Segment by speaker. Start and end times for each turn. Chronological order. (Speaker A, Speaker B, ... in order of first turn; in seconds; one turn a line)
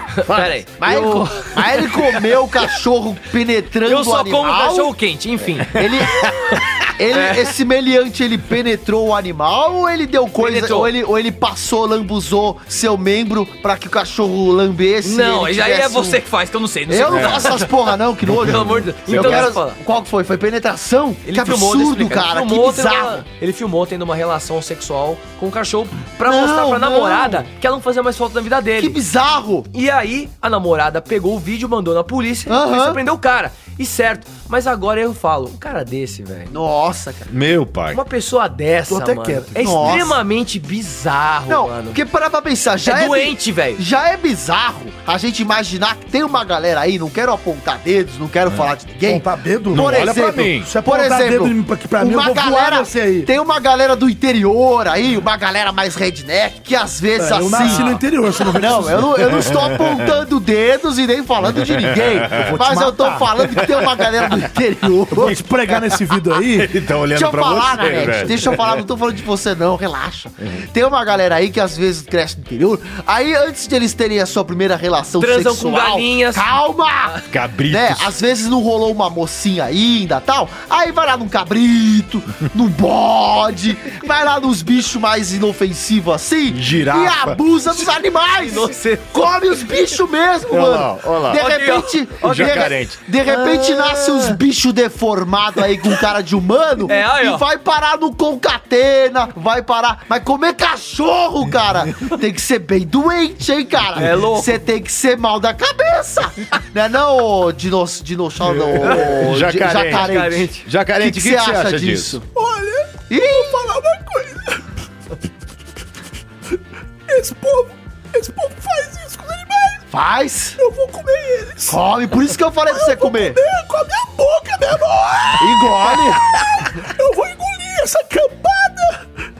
Speaker A: 0.1-1.3
Speaker B: 0.8-4.9
Speaker A: 3.8-6.3
Speaker B: 5.7-16.2
Speaker A: 7.1-7.4
Speaker A: 10.4-10.9
Speaker A: 15.0-17.7
Speaker B: 16.9-23.2
Speaker C: 17.1-17.7
Speaker C: 18.3-19.5
Speaker A: 18.4-19.8
Speaker A: 21.2-29.0
Speaker B: 26.2-27.4
Speaker B: 28.8-29.7
Speaker A: 29.7-36.5
Speaker B: 32.5-33.0
Speaker B: 36.5-37.3
Speaker C: 37.3-38.0
Speaker A: 37.9-42.0
Speaker D: 38.9-40.0
Speaker B: 39.6-40.2
Speaker B: 41.5-65.4
Speaker A: 42.8-43.8
Speaker C: 48.5-48.7
Speaker D: 49.0-53.3
Speaker C: 49.7-50.7
Speaker D: 57.1-59.1
Speaker C: 59.2-59.9
Speaker C: 61.5-62.6
Speaker D: 62.3-63.3
Speaker C: 63.6-64.4
Speaker D: 65.1-66.7
Speaker C: 66.4-68.8
Speaker B: 67.1-112.2
Speaker A: 75.2-76.5
Speaker C: 77.3-78.1
Speaker C: 86.5-87.4
Speaker A: 88.4-89.3
Speaker C: 90.5-91.4
Speaker A: 91.3-92.7
Speaker C: 92.2-93.0
Speaker A: 93.2-94.4
Speaker A: 96.9-97.4
Speaker A: 104.0-104.6
Speaker C: 108.4-112.2
Speaker A: 108.8-109.2
Speaker A: 109.9-110.7
Speaker D: 112.3-114.8
Speaker B: 113.1-113.6
Speaker D: 117.1-119.8
Speaker B: 119.9-120.6
Speaker D: 120.6-121.8
Speaker B: 121.7-123.4
Speaker D: 122.7-129.1
Speaker B: 125.4-126.2